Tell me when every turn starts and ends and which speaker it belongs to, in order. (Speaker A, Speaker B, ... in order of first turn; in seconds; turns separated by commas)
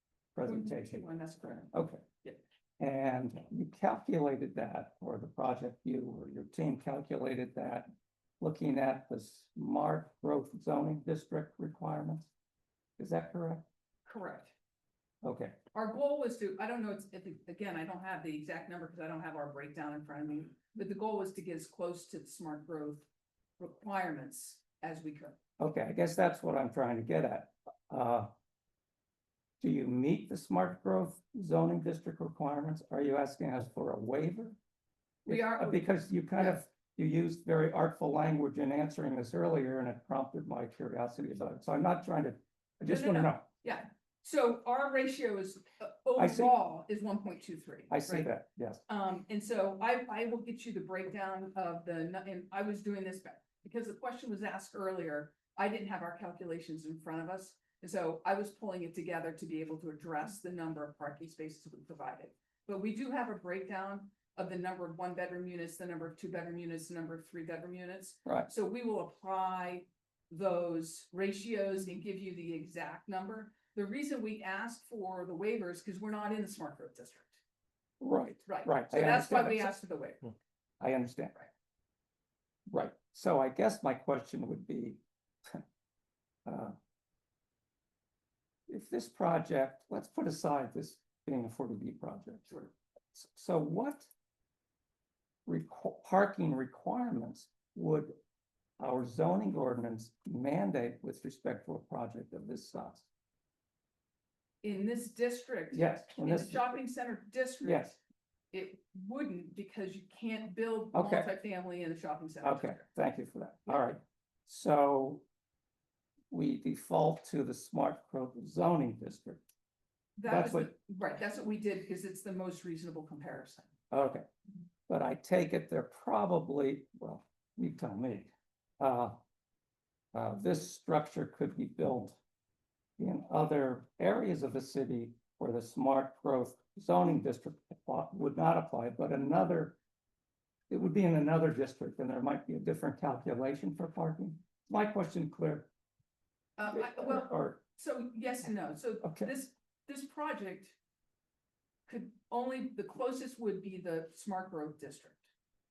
Speaker A: 0.4-1.0, Speaker B: 0.5-2.4, Speaker A: 1.7-2.0, Speaker A: 2.8-12.3, Speaker A: 13.0-13.7, Speaker B: 14.1-14.5, Speaker A: 15.2-15.6, Speaker B: 15.7-23.1, Speaker B: 23.6-25.4, Speaker A: 25.6-28.3, Speaker A: 29.6-34.6, Speaker A: 35.3-43.5, Speaker B: 35.3-35.8, Speaker B: 42.9-48.3, Speaker A: 46.2-46.5, Speaker A: 47.9-48.8, Speaker B: 48.9-77.4, Speaker A: 78.0-79.8, Speaker B: 78.5-80.3, Speaker A: 80.8-81.3, Speaker A: 82.7-85.6, Speaker A: 86.5-86.8, Speaker A: 88.7-92.5, Speaker A: 93.1-94.1, Speaker A: 95.5-98.1, Speaker A: 98.8-103.1, Speaker B: 104.6-108.0, Speaker A: 105.7-106.6, Speaker A: 107.6-108.0, Speaker B: 108.5-112.8, Speaker A: 110.9-111.3, Speaker A: 112.4-115.2, Speaker A: 116.3-119.4, Speaker B: 120.2-123.7, Speaker A: 120.3-120.7, Speaker A: 123.9-124.3, Speaker A: 124.9-129.2, Speaker A: 130.1-132.2, Speaker A: 133.0-139.8, Speaker A: 140.7-145.7, Speaker B: 146.6-150.8, Speaker A: 146.7-147.6, Speaker A: 149.0-149.3, Speaker B: 151.9-155.2